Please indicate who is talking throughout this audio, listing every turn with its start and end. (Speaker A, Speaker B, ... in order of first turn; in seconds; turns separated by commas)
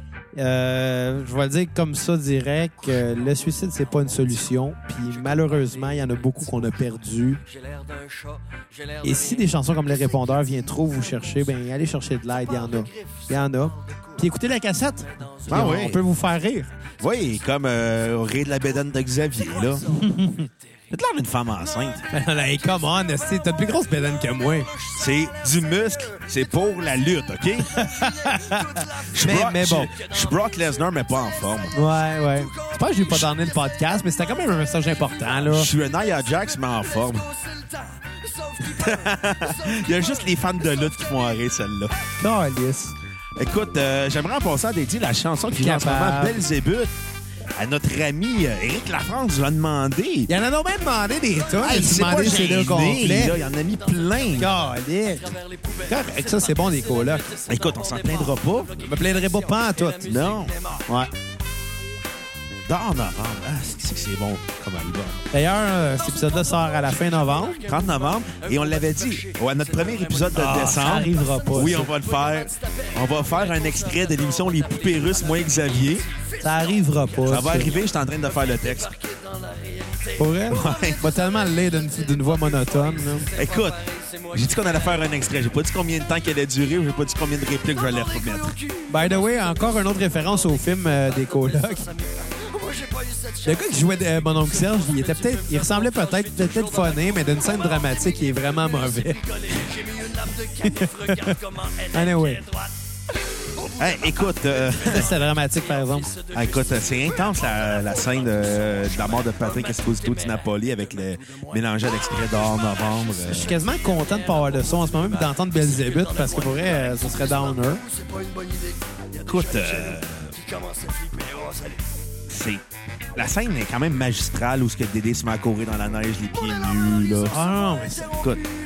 Speaker A: 0.3-7.4, Speaker B: 7.6-8.8, Speaker A: 9.0-16.7, Speaker C: 15.5-16.0, Speaker C: 17.0-19.9, Speaker A: 19.9-20.5, Speaker C: 20.9-22.1, Speaker A: 22.1-24.7, Speaker C: 24.9-27.7, Speaker A: 27.6-29.9, Speaker B: 28.0-28.8, Speaker C: 29.1-31.8, Speaker A: 31.7-35.7, Speaker C: 35.4-37.3, Speaker B: 37.4-39.7, Speaker C: 38.6-42.0, Speaker A: 42.2-43.0, Speaker C: 43.4-46.9, Speaker A: 45.5-46.4, Speaker C: 47.5-50.3, Speaker A: 50.3-53.4, Speaker C: 51.6-54.5, Speaker A: 54.4-57.3, Speaker B: 55.4-56.2, Speaker B: 57.2-60.5, Speaker C: 57.5-58.7, Speaker A: 58.8-60.1, Speaker C: 60.0-60.5, Speaker C: 62.7-65.2, Speaker A: 65.3-67.6, Speaker C: 67.6-76.1, Speaker B: 68.2-76.3, Speaker A: 70.3-71.9, Speaker A: 76.4-77.7, Speaker C: 77.2-78.9, Speaker B: 78.7-80.6, Speaker A: 80.2-83.3, Speaker C: 80.5-81.0, Speaker B: 83.3-84.3, Speaker C: 83.3-83.8, Speaker C: 84.3-88.5, Speaker A: 88.9-91.9, Speaker B: 91.6-93.4, Speaker A: 93.4-99.2, Speaker B: 99.2-102.4, Speaker A: 100.6-101.3, Speaker A: 101.9-102.4, Speaker C: 103.7-105.1, Speaker A: 104.8-106.2, Speaker C: 106.3-113.5, Speaker A: 113.2-117.8, Speaker B: 116.0-116.3, Speaker B: 117.9-121.8, Speaker C: 119.2-120.3, Speaker C: 122.3-122.6, Speaker C: 123.1-127.3, Speaker A: 127.2-128.2